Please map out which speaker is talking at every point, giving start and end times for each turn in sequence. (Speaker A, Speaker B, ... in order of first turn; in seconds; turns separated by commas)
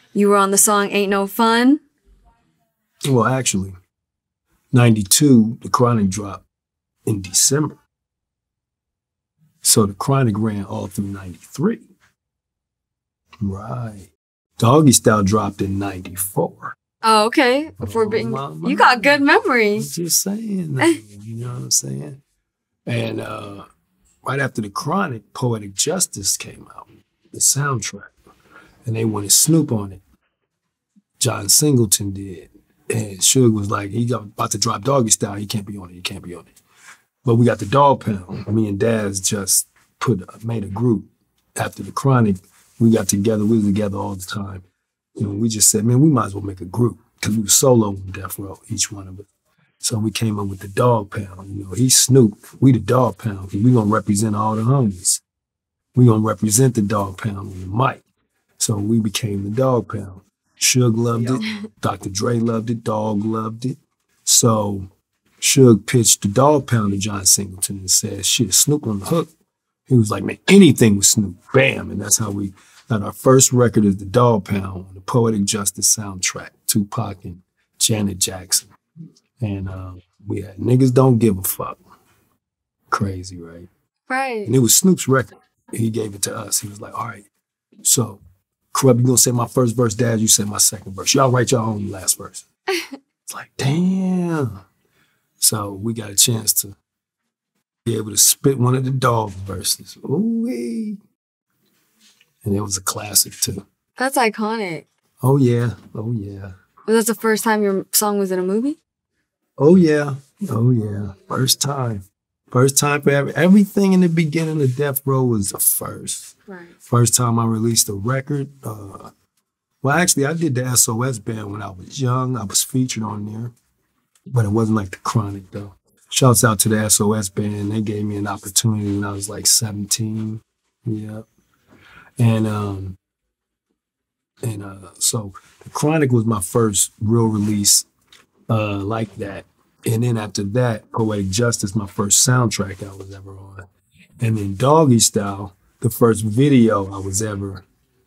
Speaker A: 0.1-1.8, Speaker B: 3.1-3.8, Speaker B: 4.7-6.5, Speaker B: 7.1-7.8, Speaker B: 9.6-11.9, Speaker B: 13.4-16.8, Speaker A: 17.0-19.9, Speaker B: 17.8-22.2, Speaker B: 22.9-23.7, Speaker B: 24.2-28.1, Speaker B: 28.9-30.0, Speaker B: 31.2-36.5, Speaker B: 37.2-44.6, Speaker B: 45.2-49.3, Speaker B: 49.8-55.2, Speaker B: 56.0-58.0, Speaker B: 58.6-64.9, Speaker B: 65.4-69.3, Speaker B: 69.9-78.7, Speaker B: 79.4-81.8, Speaker B: 82.9-83.7, Speaker A: 84.1-84.5, Speaker B: 84.5-87.2, Speaker B: 87.8-92.5, Speaker B: 93.3-94.5, Speaker B: 95.4-96.8, Speaker B: 97.9-101.0, Speaker B: 102.4-103.7, Speaker A: 104.0-104.9, Speaker B: 105.2-106.5, Speaker A: 106.9-108.8, Speaker B: 109.6-116.3, Speaker B: 116.8-119.1, Speaker B: 119.8-123.5, Speaker B: 124.3-131.2, Speaker B: 132.2-133.0, Speaker B: 134.4-137.9, Speaker B: 138.5-143.7, Speaker B: 144.2-147.7